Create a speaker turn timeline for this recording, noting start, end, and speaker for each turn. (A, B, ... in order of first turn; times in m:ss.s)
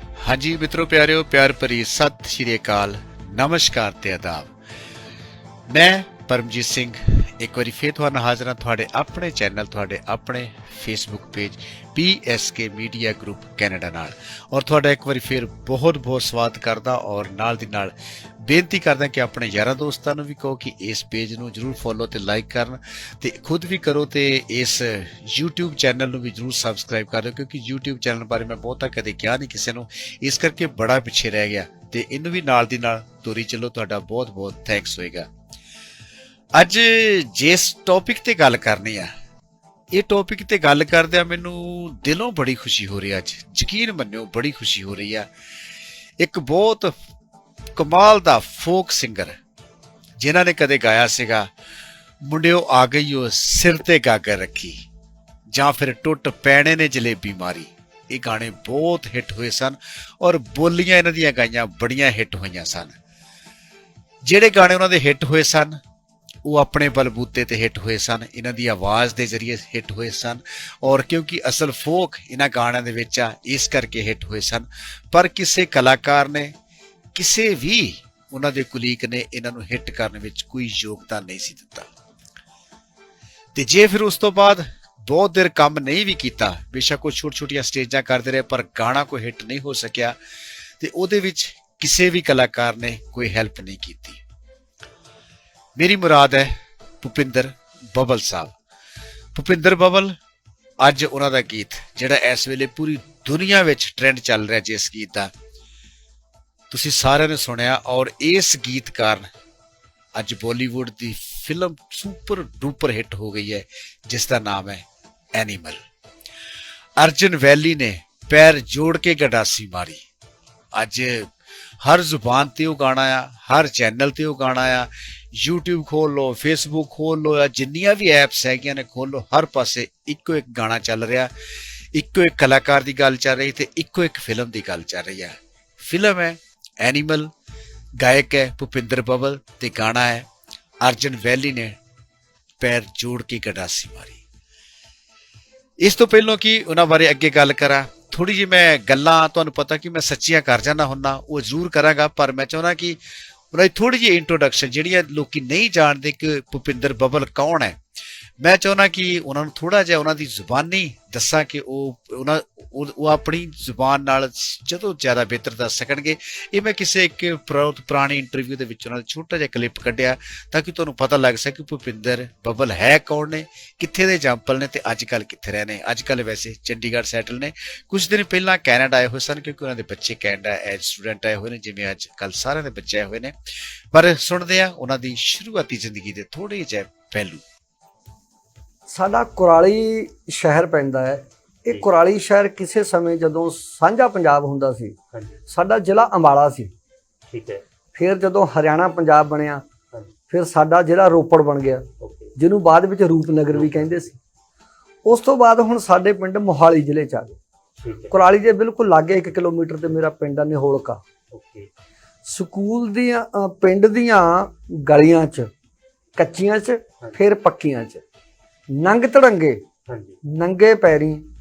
0:00.2-0:04.5 A
0:05.7-0:35.3 A
0:36.6-0:39.1 A
0:39.9-0:45.3 A
0:46.2-0:46.9 A
0:47.8-0:49.4 A
0:50.2-0:51.5 A
0:52.2-0:54.8 A
0:55.5-1:03.0 A
1:04.3-1:05.8 A
1:06.4-1:16.5 A
1:17.1-1:21.9 A
1:23.6-1:30.2 A
1:30.8-1:34.2 A
1:35.8-1:38.5 A
1:39.4-1:40.2 A
1:40.8-1:45.3 A
1:46.7-1:49.3 A
1:50.2-1:55.8 A
1:57.0-2:00.0 A
2:00.7-2:01.3 A
2:01.8-2:11.3 A
2:11.9-2:17.3 A
2:18.0-2:20.3 A
2:20.8-2:21.8 A
2:22.6-2:24.2 A
2:25.8-2:33.0 A
2:33.5-2:37.8 A
2:38.4-3:03.4 A
3:03.9-3:07.4 A
3:08.9-3:15.0 B
3:15.1-3:15.4 C
3:15.5-3:16.7 B
3:17.3-3:17.6 C
3:18.0-3:19.6 B
3:20.3-3:21.9 B
3:22.0-3:22.3 C
3:22.4-3:24.2 B
3:23.5-3:23.9 C
3:25.1-3:27.4 B
3:27.8-3:28.2 C
3:28.1-3:31.0 B
3:31.3-3:31.7 C
3:32.3-3:35.5 B
3:36.2-3:38.0 B
3:38.7-3:39.6 B
3:39.9-3:40.2 C
3:40.2-3:41.2 B